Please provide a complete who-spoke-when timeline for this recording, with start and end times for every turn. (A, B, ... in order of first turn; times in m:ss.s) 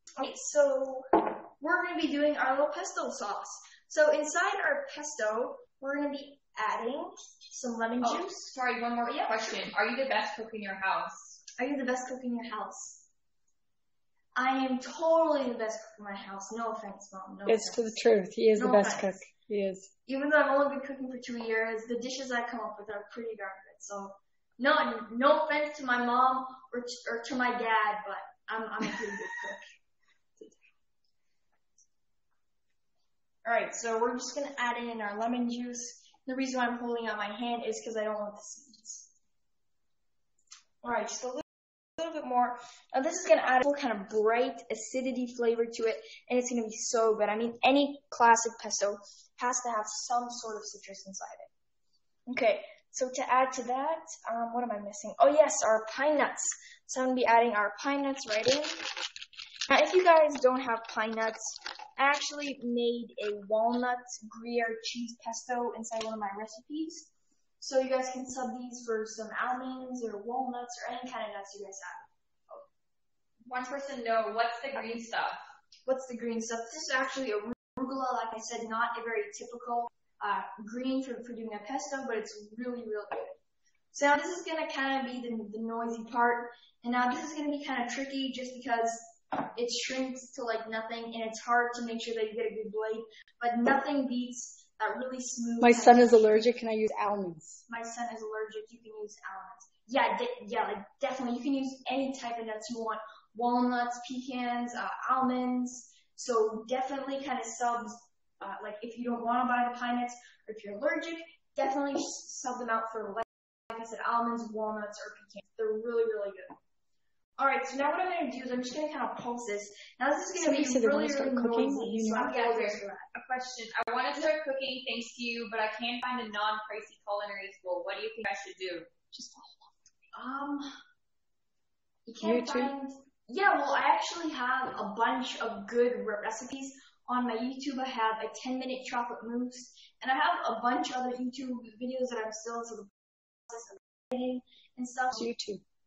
0:00.2-0:09.6 A
0:08.0-0:11.4 B
0:11.6-0:13.0 A
0:14.4-0:17.9 A
0:17.5-0:19.9 C
0:18.6-0:19.3 A
0:20.1-0:29.6 A
0:33.4-0:39.1 A
0:40.8-0:51.5 A
0:52.3-0:58.8 A
0:59.7-1:07.1 A
1:07.6-1:12.6 A
1:13.4-1:15.4 B
1:15.9-1:23.4 A
1:23.9-1:36.4 A
1:35.6-1:37.6 C
1:37.7-1:56.6 A
1:57.4-2:03.1 A
2:00.4-2:02.3 C
2:02.2-2:09.1 B
2:10.1-2:10.8 A
2:12.1-2:25.3 A
2:12.2-2:12.7 C
2:25.2-2:25.6 C